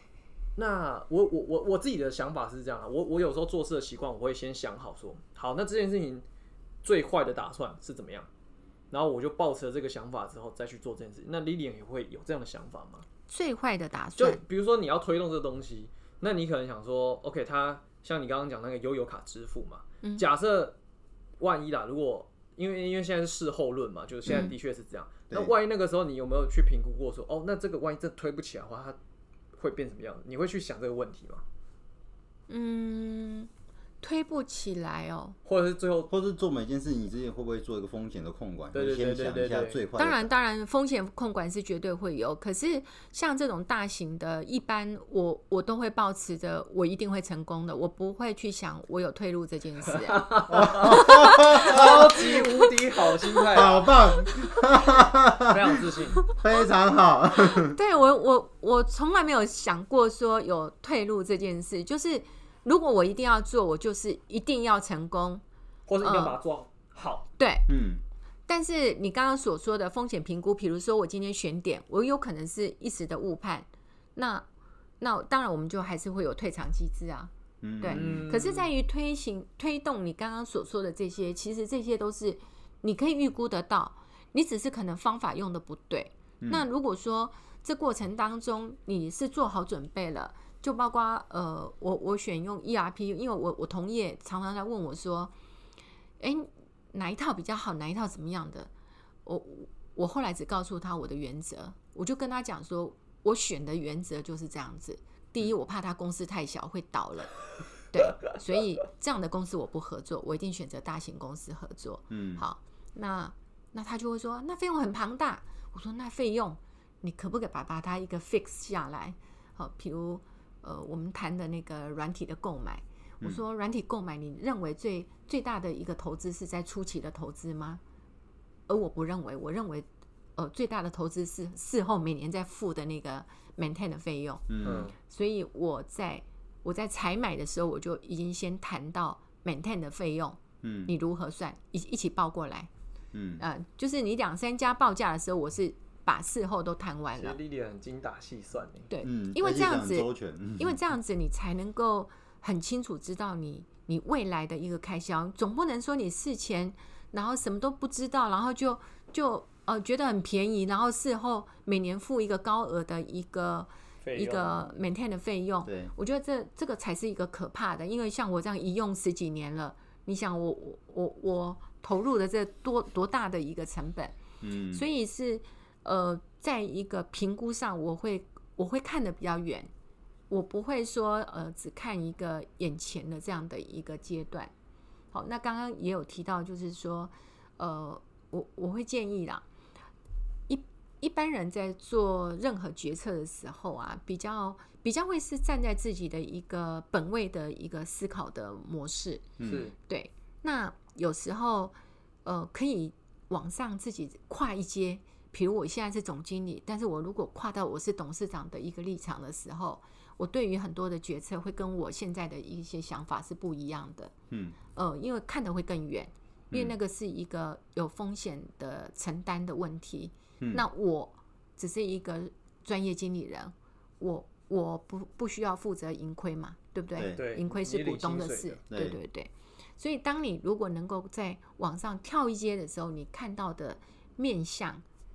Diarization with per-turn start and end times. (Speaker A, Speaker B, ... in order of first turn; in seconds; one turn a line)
Speaker A: 0.6-6.2
Speaker A: 6.8-8.3
Speaker A: 8.9-13.1
Speaker B: 13.3-14.4
Speaker A: 14.2-20.8
Speaker A: 21.4-29.0
Speaker C: 24.3-24.5
Speaker A: 29.6-31.4
Speaker B: 32.5-33.5
Speaker B: 34.0-35.4
Speaker A: 35.5-36.1
Speaker C: 36.1-40.3
Speaker A: 38.7-39.8
Speaker B: 40.0-52.7
Speaker A: 50.0-54.0
Speaker C: 50.5-52.4
Speaker C: 53.5-57.8
Speaker A: 55.5-56.2
Speaker B: 57.4-65.4
Speaker A: 65.9-67.3
Speaker B: 66.0-66.4
Speaker B: 67.4-67.7
Speaker C: 67.7-68.0
Speaker B: 68.5-74.5
Speaker B: 75.0-95.3
Speaker C: 77.6-78.3
Speaker A: 77.9-78.7
Speaker C: 86.4-86.7
Speaker B: 96.2-98.7
Speaker B: 99.2-107.3
Speaker B: 107.9-127.8
Speaker C: 112.1-112.4
Speaker B: 128.7-142.7
Speaker C: 134.5-134.9
Speaker A: 134.6-134.9
Speaker C: 140.6-140.9
Speaker C: 143.1-143.4
Speaker B: 143.4-147.4
Speaker A: 147.2-148.9
Speaker B: 148.9-174.2
Speaker C: 149.0-150.8
Speaker A: 164.0-164.7
Speaker C: 165.7-165.9
Speaker C: 174.4-174.9
Speaker B: 174.7-179.7
Speaker B: 180.3-184.5
Speaker B: 185.1-189.4
Speaker B: 190.5-214.1
Speaker C: 199.4-199.7
Speaker A: 199.4-199.7
Speaker C: 214.3-214.6
Speaker B: 214.8-234.8
Speaker A: 227.2-228.6
Speaker C: 228.7-229.0